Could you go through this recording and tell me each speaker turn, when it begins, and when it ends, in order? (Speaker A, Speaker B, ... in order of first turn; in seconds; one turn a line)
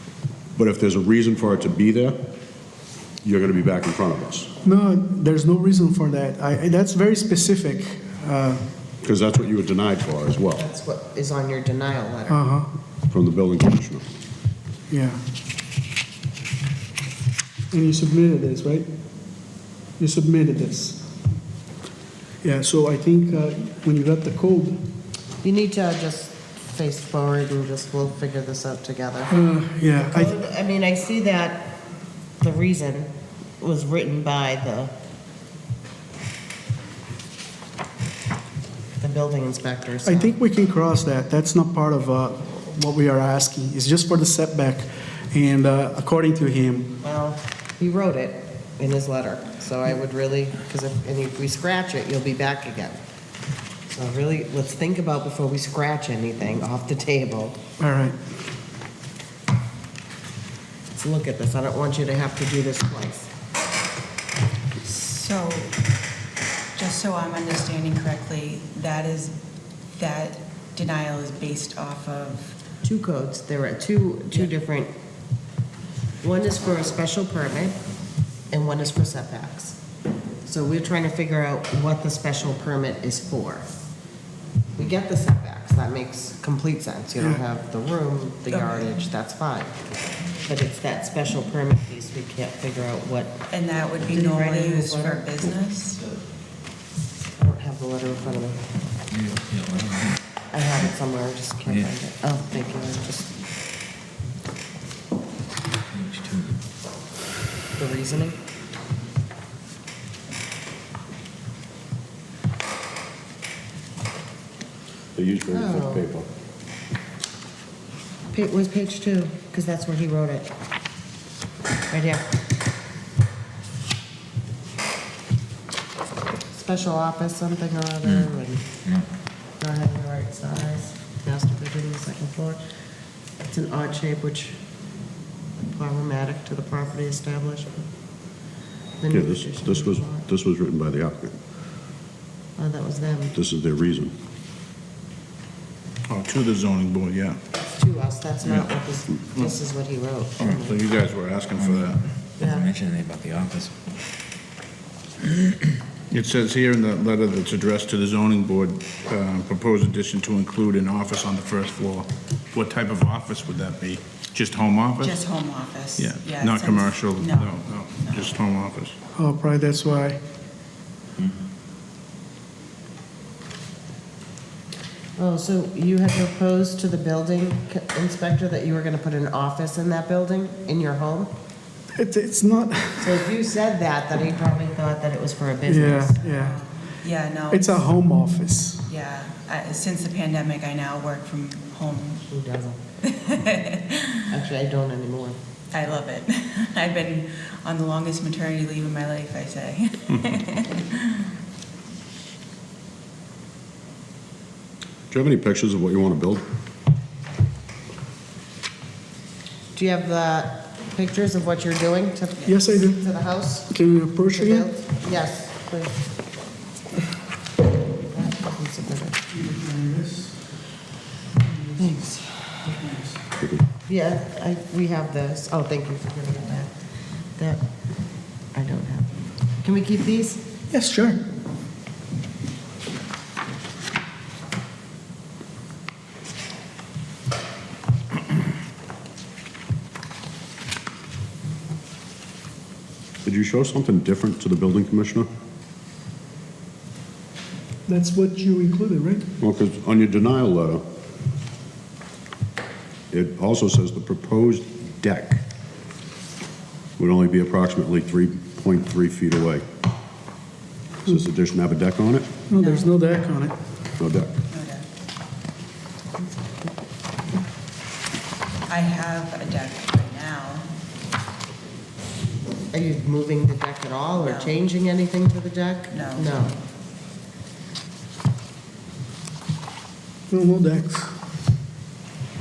Speaker A: 0.6-2.2
Speaker A: 3.2-4.5
Speaker B: 4.6-8.6
Speaker A: 9.0-10.6
Speaker C: 10.5-12.4
Speaker B: 12.3-12.7
Speaker A: 13.1-14.1
Speaker B: 14.9-15.2
Speaker B: 17.7-18.9
Speaker B: 20.0-21.1
Speaker B: 22.4-24.8
Speaker C: 25.4-29.3
Speaker B: 29.3-30.3
Speaker C: 30.0-31.8
Speaker C: 32.4-34.9
Speaker C: 39.0-40.3
Speaker B: 40.0-46.9
Speaker C: 47.0-53.0
Speaker C: 53.9-57.6
Speaker B: 57.8-58.2
Speaker C: 60.9-63.3
Speaker D: 64.8-65.8
Speaker D: 66.7-72.5
Speaker C: 72.8-74.9
Speaker C: 76.2-77.8
Speaker C: 78.5-79.8
Speaker C: 80.4-83.7
Speaker C: 84.7-89.7
Speaker D: 88.5-89.0
Speaker C: 90.4-93.4
Speaker D: 93.5-96.0
Speaker C: 94.0-95.2
Speaker C: 97.4-98.6
Speaker E: 99.1-100.2
Speaker C: 100.5-103.3
Speaker E: 105.9-106.6
Speaker C: 107.8-108.4
Speaker A: 115.2-116.3
Speaker C: 115.5-116.0
Speaker C: 118.3-120.5
Speaker C: 121.9-122.3
Speaker C: 126.5-128.7
Speaker C: 129.6-132.6
Speaker C: 133.5-134.6
Speaker C: 135.6-137.8
Speaker C: 139.0-140.2
Speaker A: 139.1-141.3
Speaker C: 142.6-143.3
Speaker A: 143.3-144.1
Speaker F: 146.1-147.4
Speaker C: 147.6-150.8
Speaker F: 148.4-148.7
Speaker F: 150.4-152.1
Speaker E: 151.6-153.8
Speaker C: 152.4-152.7
Speaker F: 156.1-165.2
Speaker D: 165.0-168.2
Speaker F: 166.0-168.9
Speaker B: 169.2-170.2
Speaker C: 175.2-181.3
Speaker B: 182.0-183.2
Speaker C: 183.0-186.2
Speaker B: 185.7-186.6
Speaker D: 186.3-187.8
Speaker B: 187.5-188.9
Speaker D: 188.9-192.3
Speaker C: 192.3-192.8
Speaker D: 193.0-194.2
Speaker C: 194.3-195.4
Speaker D: 195.7-201.3
Speaker A: 205.1-206.4
Speaker C: 209.7-213.7
Speaker B: 212.4-213.1
Speaker B: 213.7-214.7
Speaker C: 214.3-215.9
Speaker C: 218.0-219.2
Speaker B: 219.3-220.4
Speaker B: 221.4-221.8
Speaker C: 221.8-222.6
Speaker B: 222.7-223.1
Speaker C: 223.8-226.7
Speaker C: 227.3-227.6
Speaker C: 228.5-230.4
Speaker B: 230.7-231.2
Speaker A: 243.2-245.3
Speaker B: 247.9-249.3
Speaker A: 249.4-250.8
Speaker A: 253.1-255.4
Speaker A: 257.0-259.6
Speaker A: 261.0-262.3
Speaker B: 262.5-263.5
Speaker D: 262.6-262.9
Speaker A: 264.0-264.4
Speaker D: 264.5-264.9
Speaker D: 268.7-270.7
Speaker C: 272.7-276.5
Speaker D: 274.1-274.6
Speaker D: 275.9-276.3
Speaker B: 280.3-281.1